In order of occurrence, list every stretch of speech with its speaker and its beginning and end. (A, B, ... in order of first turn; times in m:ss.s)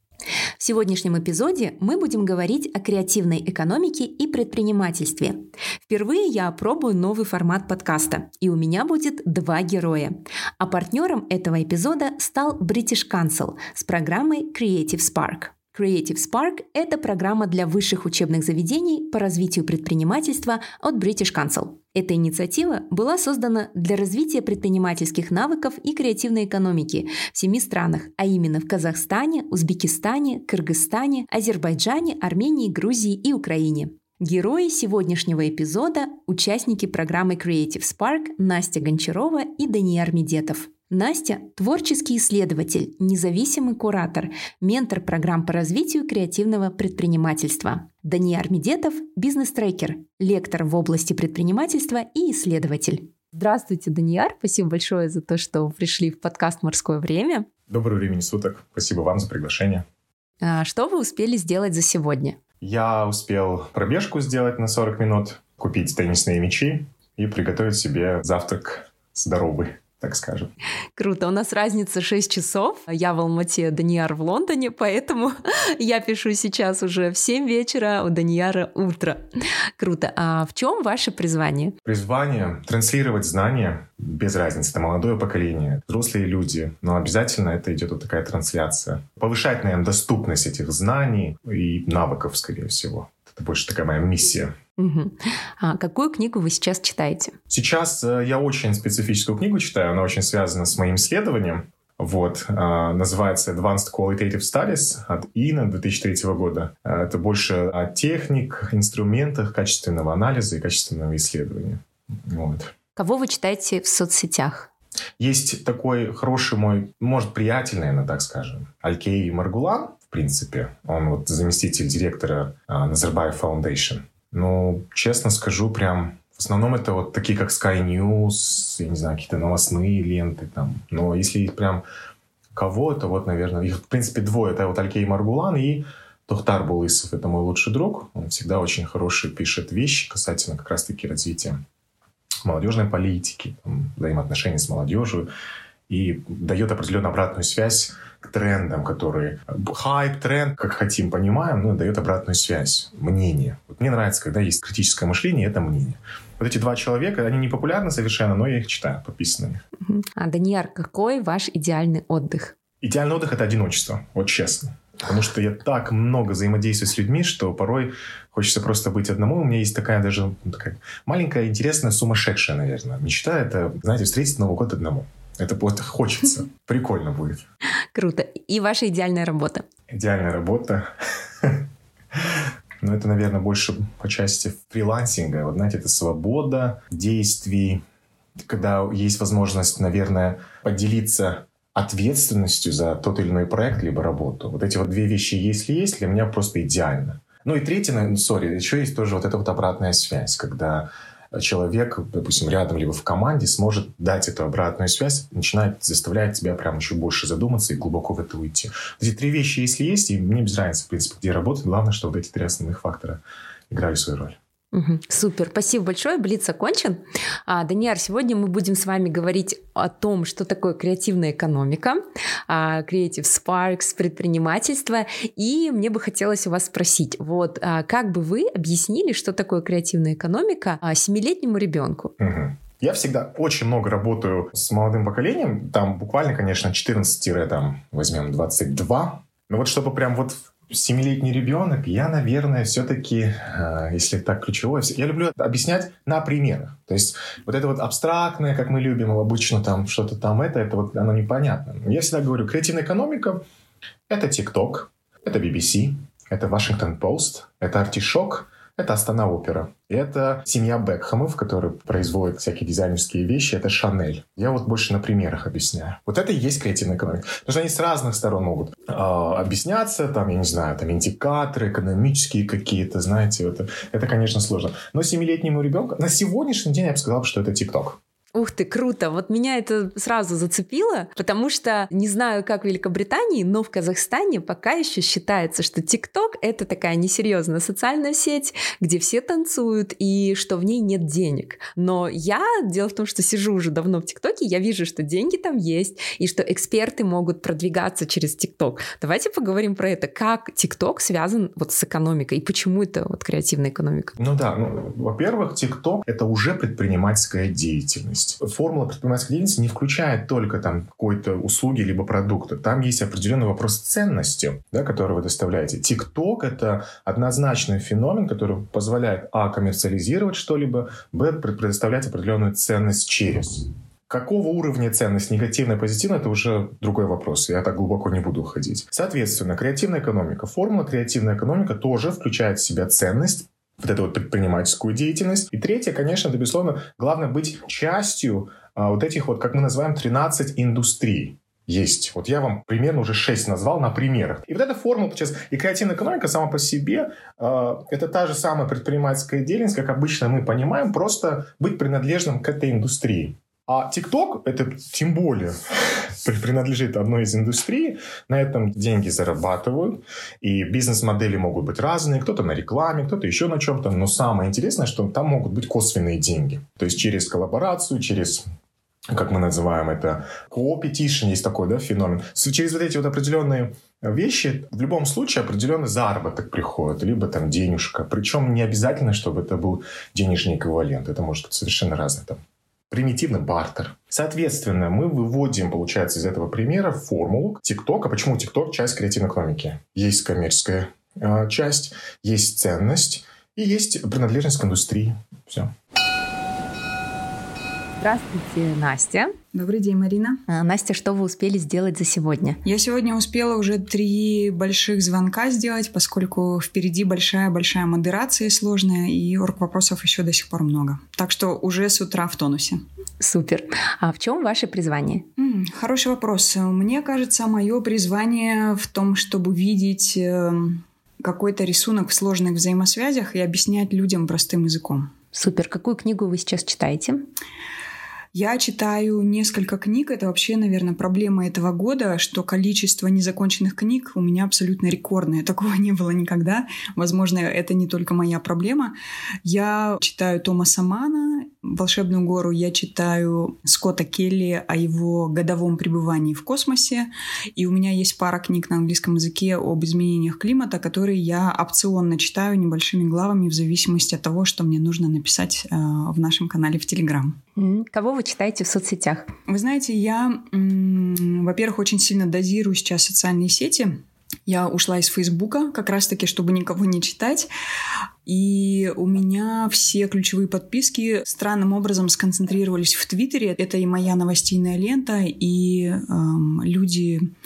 0:00.6-0:57.5 A
0:57.7-0:59.8 B
1:00.4-1:02.4 A
1:02.6-1:10.5 B
1:11.0-1:19.2 A
1:19.8-1:21.8 A
1:21.8-1:34.6 B
1:34.8-1:37.4 A
1:37.5-1:52.7 B
1:53.0-1:54.7 A
1:55.2-2:11.8 B
2:12.5-2:21.6 B
2:22.4-2:25.3 B
2:25.9-2:39.6 B
2:39.8-2:42.6 A
2:42.8-2:57.4 B
2:57.9-2:59.6 A
2:59.9-3:07.8 B
3:08.4-3:34.4 B
3:34.7-3:52.1 A
3:52.2-4:13.4 B
4:14.1-4:38.0 B
4:38.3-5:04.2 A
5:04.2-6:08.5 B
6:09.1-6:22.4 B
6:22.9-6:35.7 B
6:38.0-6:39.4 A
6:39.5-6:40.4 C
6:40.5-6:42.6 A
6:42.6-6:52.8 C
6:53.2-6:55.3 A
6:55.4-7:05.1 C
7:05.3-7:07.3 A
7:08.3-7:37.4 C
7:37.6-7:39.3 A
7:39.5-7:47.5 C
7:48.3-7:57.3 C